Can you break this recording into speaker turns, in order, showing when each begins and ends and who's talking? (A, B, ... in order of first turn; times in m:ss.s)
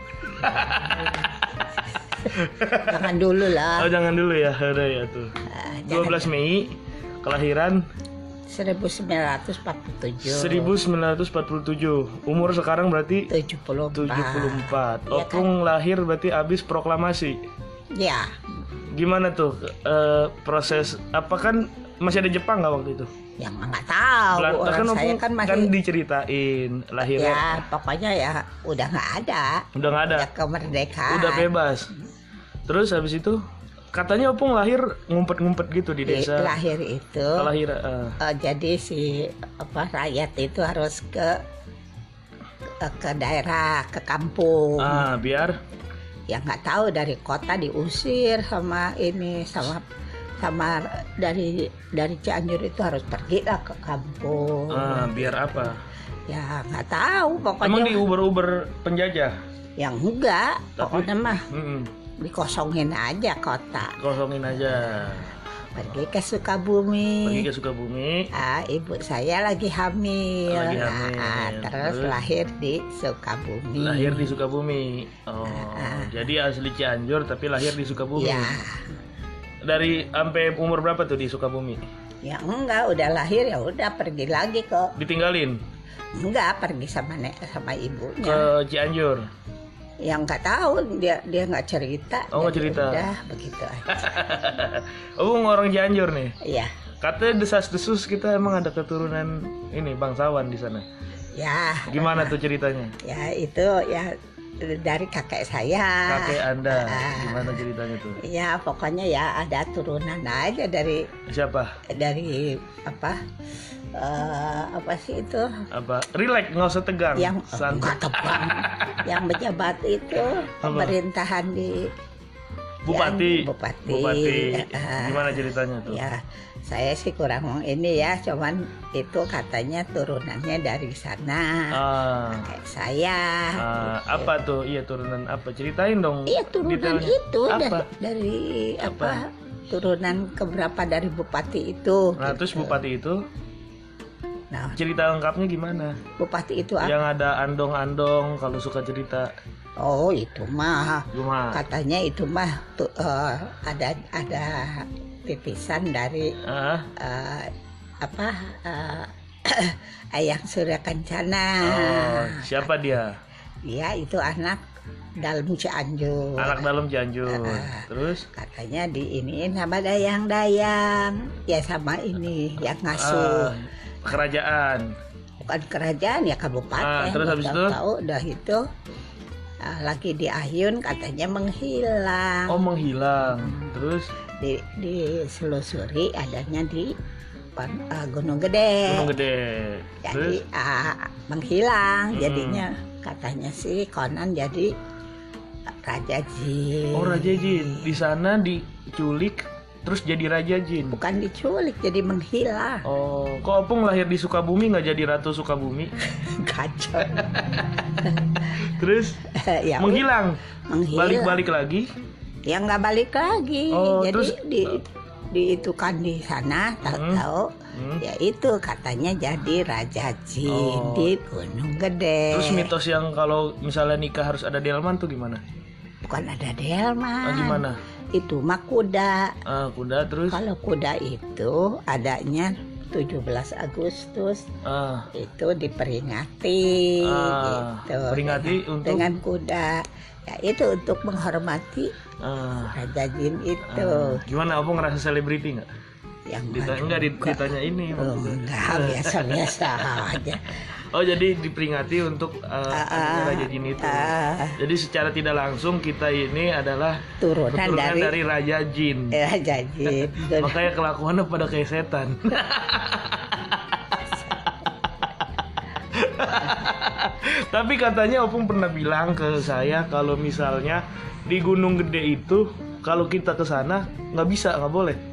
0:00.3-0:01.4 A
0:02.2-0:03.9 B
0:02.3-0:03.1 A
0:03.7-0:05.3 A
0:05.5-0:06.3 B
0:05.9-0:07.8 A
0:08.5-0:10.7 B
0:10.2-0:13.3 A
0:13.3-0:15.5 B
0:14.0-0:17.4 A
0:18.0-0:18.4 B
0:18.9-0:23.1 A
0:23.4-0:25.7 B
0:24.4-0:27.6 A
0:27.2-0:31.5 B
0:29.8-0:30.3 A
0:31.1-0:31.9 A
0:32.7-0:33.4 A
0:33.9-0:36.6 A
0:36.0-0:37.5 B
0:37.4-0:38.2 A
0:38.2-0:41.4 B
0:42.8-0:45.1 B
0:44.8-0:45.6 A
0:46.3-0:49.8 B
0:50.4-0:55.7 B
0:54.7-0:55.8 A
0:56.3-0:58.0 B
0:57.6-0:59.4 A
0:59.8-1:01.5 B
1:00.8-1:01.9 A
1:02.2-1:04.0 B
1:04.0-1:05.4 A
1:05.8-1:07.5 B
1:07.2-1:08.3 A
1:08.3-1:14.3 B
1:10.5-1:12.2 A
1:13.8-1:18.6 A
1:15.5-1:16.3 B
1:18.2-1:18.9 B
1:19.6-1:21.8 A
1:22.2-1:24.9 B
1:25.0-1:25.6 A
1:26.2-1:28.5 B
1:28.2-1:29.2 A
1:30.0-1:34.2 B
1:32.3-1:33.1 A
1:33.9-1:36.4 A
1:36.4-1:36.7 B
1:37.0-1:40.9 A
1:41.4-1:42.4 B
1:41.9-1:43.0 A
1:43.0-1:47.6 B
1:46.1-1:48.2 A
1:48.2-1:51.1 B
1:51.3-1:51.8 A
1:51.9-1:53.2 B
1:53.9-1:55.6 B
1:55.7-1:58.4 A
1:57.2-2:01.9 B
2:00.6-2:01.0 A
2:02.9-2:06.0 A
2:02.9-2:14.3 B
2:11.7-2:12.5 A
2:13.6-2:17.9 A
2:16.3-2:22.8 B
2:18.8-2:19.2 A
2:22.2-2:23.2 A
2:24.5-2:24.8 B
2:24.8-2:26.0 A
2:26.2-2:27.0 B
2:26.8-2:29.3 A
2:29.8-2:36.4 B
2:31.1-2:31.6 A
2:36.4-2:36.9 A
2:37.0-2:37.5 B
2:38.0-2:42.7 B
2:41.6-2:43.2 A
2:43.6-2:44.6 B
2:45.2-2:46.7 B
2:46.4-2:48.2 A
2:47.3-2:53.5 B
2:52.9-2:54.9 A
2:55.4-2:58.6 B
2:56.8-2:57.8 A
2:59.6-3:02.6 B
3:02.5-3:04.1 A
3:03.3-3:03.7 B
3:04.4-3:07.0 B
3:07.6-3:09.1 B
3:08.8-3:10.4 A
3:10.0-3:14.7 B
3:12.1-3:12.7 A
3:15.8-3:17.9 B
3:16.9-3:21.0 A
3:20.9-3:22.9 B
3:22.8-3:25.9 A
3:26.2-3:27.4 B
3:27.2-3:29.2 A
3:29.3-3:30.1 B
3:29.8-3:30.4 A
3:30.7-3:31.4 B
3:30.9-3:31.9 A
3:32.5-3:42.7 B
3:33.7-3:34.8 A
3:36.9-3:38.0 A
3:40.4-3:41.1 A
3:42.3-3:45.4 A
3:46.0-3:49.4 B
3:47.2-3:47.8 A
3:49.4-3:50.4 A
3:50.3-3:54.4 B
3:54.6-3:55.1 A
3:55.1-4:01.9 B
3:57.0-3:59.1 A
4:02.2-4:02.8 A
4:02.7-4:04.2 B
4:03.7-4:05.7 A
4:06.3-4:07.4 B
4:06.5-4:19.2 A
4:08.0-4:10.6 B
4:12.7-4:14.6 B
4:17.2-4:18.2 B
4:19.1-4:20.7 B
4:19.9-4:24.6 A
4:25.9-4:35.0 A